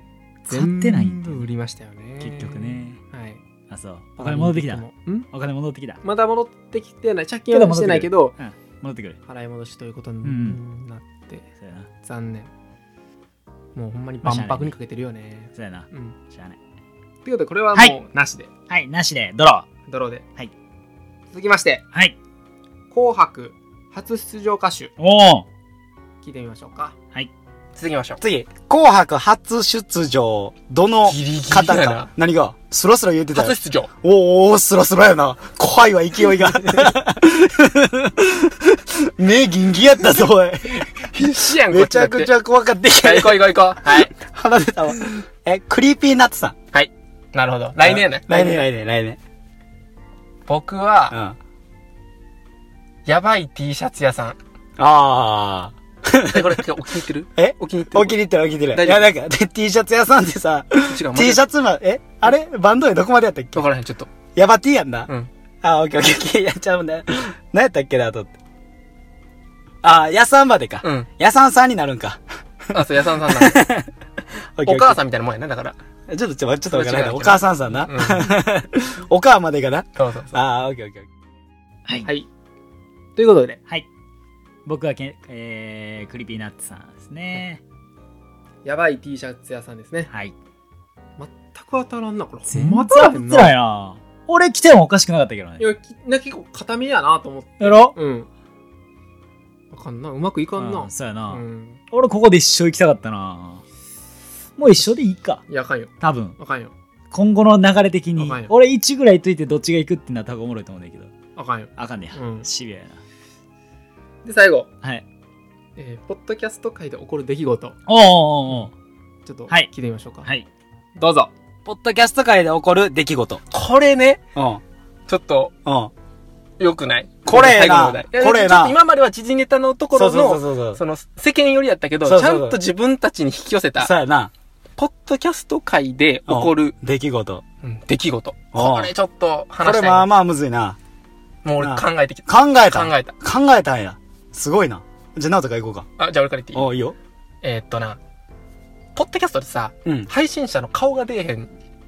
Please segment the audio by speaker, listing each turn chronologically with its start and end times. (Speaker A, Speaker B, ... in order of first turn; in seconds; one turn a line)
Speaker A: 0.5-3.4
Speaker B: 0.5-1.5
Speaker B: 2.2-3.0
Speaker B: 3.7-6.0
Speaker A: 4.2-5.3
Speaker A: 6.0-8.3
Speaker B: 7.5-9.2
Speaker A: 9.2-11.5
Speaker B: 10.2-10.6
Speaker B: 11.6-11.9
Speaker A: 12.0-12.5
Speaker A: 13.8-16.2
Speaker B: 14.2-14.7
Speaker B: 15.6-16.6
Speaker A: 17.2-18.5
Speaker B: 18.7-19.7
Speaker A: 19.9-20.2
Speaker A: 21.3-21.8
Speaker A: 22.9-24.9
Speaker B: 25.0-25.5
Speaker A: 26.2-26.9
Speaker C: 27.8-28.2
Speaker D: 28.2-41.1
Speaker C: 31.1-32.1
Speaker C: 33.3-33.9
Speaker C: 40.7-42.4
Speaker D: 41.7-46.5
Speaker C: 43.0-44.1
Speaker C: 46.7-48.6
Speaker D: 47.8-49.2
Speaker C: 50.5-51.2
Speaker D: 51.1-51.4
Speaker C: 53.1-54.4
Speaker D: 54.8-56.6
Speaker C: 56.2-58.2
Speaker D: 57.4-63.6
Speaker C: 58.7-59.1
Speaker C: 60.8-61.4
Speaker C: 63.5-64.1
Speaker D: 64.3-65.1
Speaker D: 65.6-68.3
Speaker D: 69.8-72.2
Speaker C: 70.8-71.1
Speaker D: 72.7-73.9
Speaker C: 72.7-73.6
Speaker D: 74.6-75.0
Speaker C: 74.6-75.8
Speaker D: 76.1-81.1
Speaker C: 76.7-78.3
Speaker C: 80.0-80.4
Speaker A: 83.2-83.6
Speaker B: 84.7-87.6
Speaker A: 88.7-90.1
Speaker A: 91.2-93.5
Speaker B: 92.5-95.6
Speaker A: 95.6-98.3
Speaker B: 97.6-98.0
Speaker A: 99.7-101.8
Speaker B: 100.6-103.6
Speaker B: 104.6-105.4
Speaker A: 105.5-106.7
Speaker B: 106.0-106.4
Speaker B: 107.1-111.1
Speaker A: 108.2-108.5
Speaker A: 111.4-112.5
Speaker B: 111.8-113.0
Speaker A: 114.2-114.7
Speaker A: 115.8-117.8
Speaker B: 117.9-118.7
Speaker A: 119.3-120.3
Speaker A: 121.0-121.3
Speaker D: 121.7-123.4
Speaker C: 123.5-124.2
Speaker D: 124.3-124.6
Speaker C: 125.1-125.5
Speaker D: 125.7-125.9
Speaker C: 126.6-133.9
Speaker D: 127.2-128.8
Speaker D: 129.9-130.8
Speaker D: 132.1-132.6
Speaker D: 133.8-134.3
Speaker C: 134.8-136.7
Speaker D: 136.3-137.4
Speaker C: 137.6-140.1
Speaker D: 138.5-138.9
Speaker D: 139.6-140.8
Speaker C: 141.4-143.1
Speaker D: 141.6-145.9
Speaker C: 146.0-146.7
Speaker D: 146.5-147.0
Speaker C: 147.4-148.0
Speaker C: 148.9-151.5